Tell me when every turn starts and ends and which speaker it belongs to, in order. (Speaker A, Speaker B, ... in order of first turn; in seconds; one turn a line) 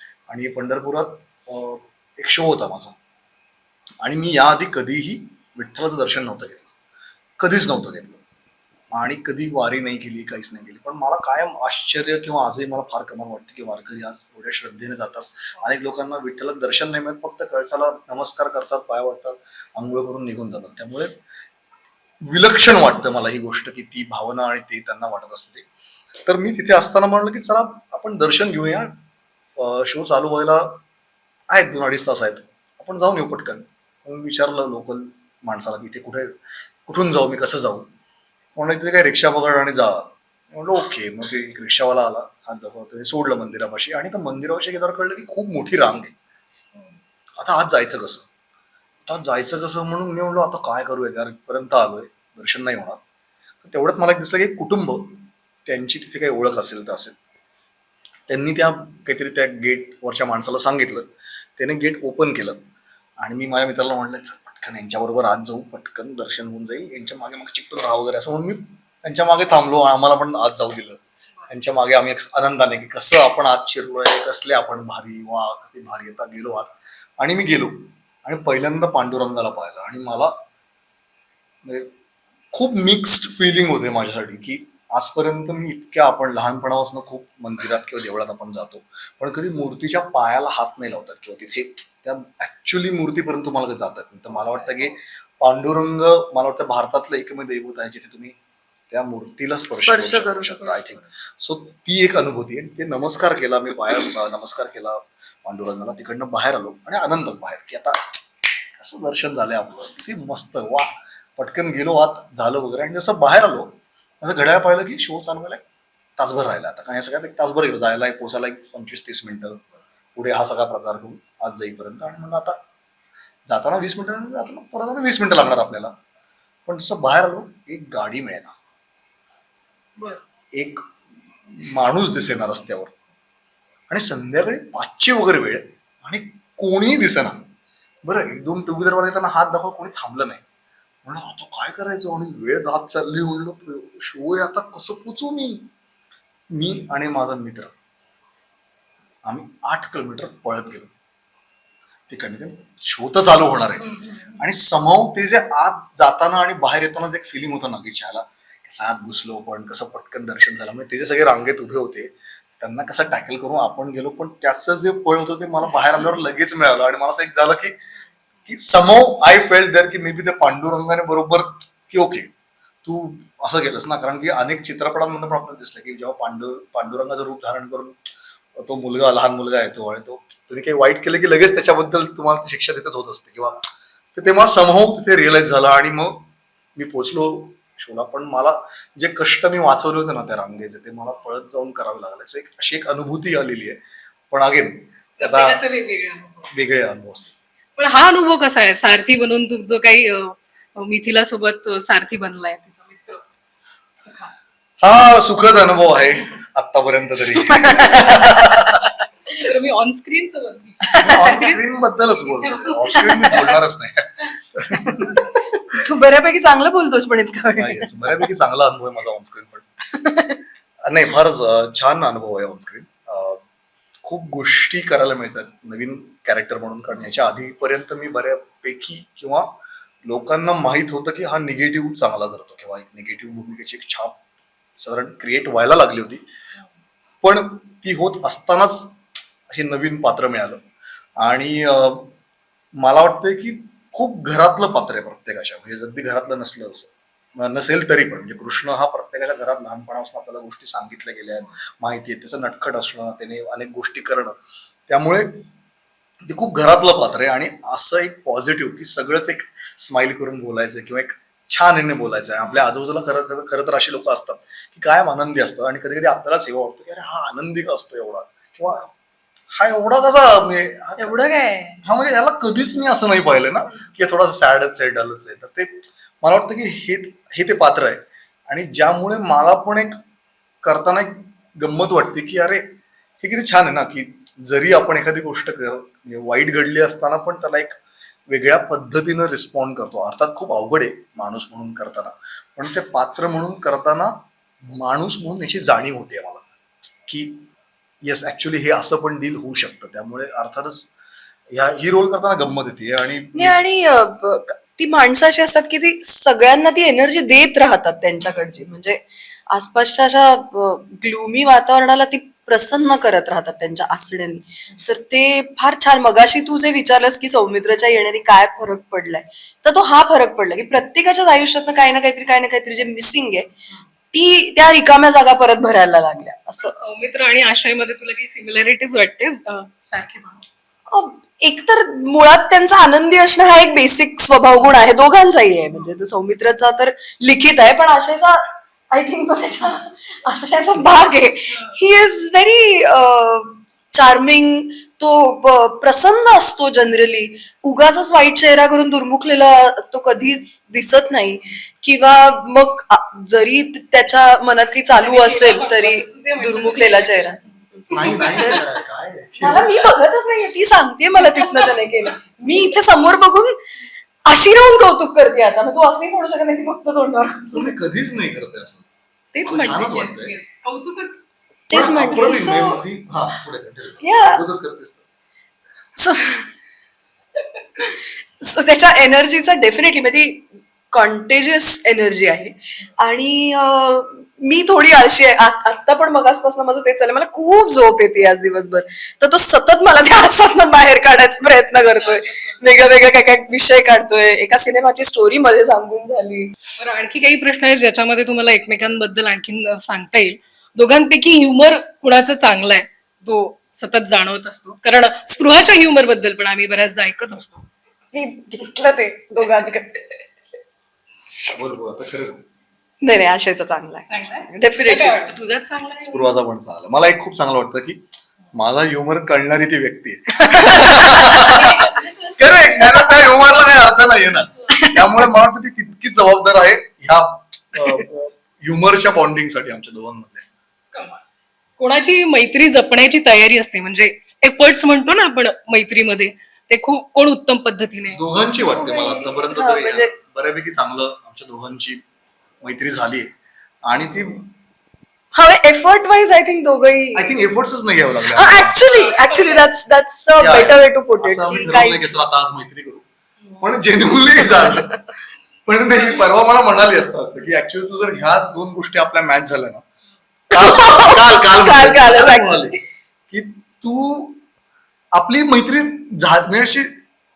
Speaker A: 0.3-3.0
Speaker A: 4.0-6.7
Speaker A: 7.4-8.2
Speaker A: 8.9-21.1
Speaker A: 22.3-25.6
Speaker A: 26.3-28.9
Speaker A: 29.6-30.8
Speaker A: 31.5-36.3
Speaker A: 36.9-37.9
Speaker A: 38.6-46.1
Speaker A: 47.4-48.3
Speaker A: 49.1-53.0
Speaker A: 53.6-55.1
Speaker A: 55.6-57.1
Speaker A: 58.3-61.0
Speaker A: 61.6-62.6
Speaker A: 63.2-80.3
Speaker A: 81.6-81.9
Speaker A: 82.5-98.4
Speaker B: 94.3-94.9
Speaker A: 98.9-108.2
Speaker C: 99.8-101.0
Speaker A: 108.8-115.6
Speaker A: 116.2-119.6
Speaker A: 120.2-122.6
Speaker A: 123.5-125.9
Speaker A: 126.7-128.5
Speaker A: 130.6-130.8
Speaker A: 131.5-132.9
Speaker A: 133.9-137.4
Speaker A: 138.1-140.4
Speaker A: 141.0-145.7
Speaker A: 146.6-147.7
Speaker A: 149.2-150.9
Speaker A: 152.1-167.8
Speaker B: 153.8-154.4
Speaker A: 168.5-172.3
Speaker A: 172.8-193.8
Speaker A: 194.3-195.6
Speaker B: 195.2-196.5
Speaker A: 196.5-197.3
Speaker B: 197.8-203.2
Speaker B: 204.0-204.3
Speaker A: 204.8-208.8
Speaker C: 207.6-208.4
Speaker B: 209.3-211.6
Speaker C: 210.9-211.3
Speaker A: 211.0-215.1
Speaker B: 212.2-213.5
Speaker C: 215.7-217.9
Speaker A: 217.6-219.7
Speaker C: 219.9-220.4
Speaker A: 220.8-223.4
Speaker A: 224.1-234.2
Speaker A: 234.8-236.2
Speaker A: 237.2-239.0
Speaker A: 239.5-240.6
Speaker A: 241.2-242.1
Speaker A: 242.8-254.3
Speaker A: 254.9-255.4
Speaker A: 256.3-268.9
Speaker A: 269.5-271.2
Speaker C: 271.1-271.6
Speaker A: 271.8-280.0
Speaker A: 280.6-282.6
Speaker A: 283.2-287.8
Speaker A: 288.3-294.1
Speaker A: 294.7-296.4
Speaker A: 297.1-297.5
Speaker A: 298.1-300.9
Speaker A: 301.5-303.6
Speaker C: 303.4-323.5
Speaker C: 324.1-326.8
Speaker B: 326.6-330.4
Speaker C: 330.9-357.4
Speaker B: 355.0-357.3
Speaker B: 357.9-358.6
Speaker A: 357.9-359.7
Speaker C: 359.4-363.6
Speaker B: 361.2-361.7
Speaker C: 364.3-367.7
Speaker A: 367.5-368.9
Speaker C: 369.4-369.8
Speaker A: 369.4-370.4
Speaker B: 369.5-371.3
Speaker C: 371.7-372.8
Speaker A: 371.7-375.0
Speaker C: 374.0-374.4
Speaker C: 376.0-376.5
Speaker C: 378.4-396.5
Speaker B: 392.0-392.6
Speaker B: 396.8-407.7
Speaker C: 408.1-410.1
Speaker A: 411.5-412.4
Speaker C: 413.0-415.3
Speaker B: 414.1-416.3
Speaker A: 416.0-418.0
Speaker A: 418.5-421.8
Speaker C: 420.4-421.7
Speaker B: 421.3-423.2
Speaker A: 422.4-430.4
Speaker C: 424.7-425.2
Speaker B: 430.9-431.2
Speaker B: 431.8-438.2
Speaker A: 438.1-442.0
Speaker C: 438.7-440.1
Speaker A: 442.6-443.3
Speaker A: 443.9-444.4
Speaker C: 445.3-447.3
Speaker A: 447.1-448.8
Speaker C: 448.3-452.2
Speaker B: 448.9-449.7
Speaker A: 450.4-453.1
Speaker A: 453.6-455.0
Speaker A: 455.7-459.8
Speaker A: 460.5-462.8
Speaker C: 460.5-462.7
Speaker A: 463.3-464.4
Speaker A: 465.1-466.9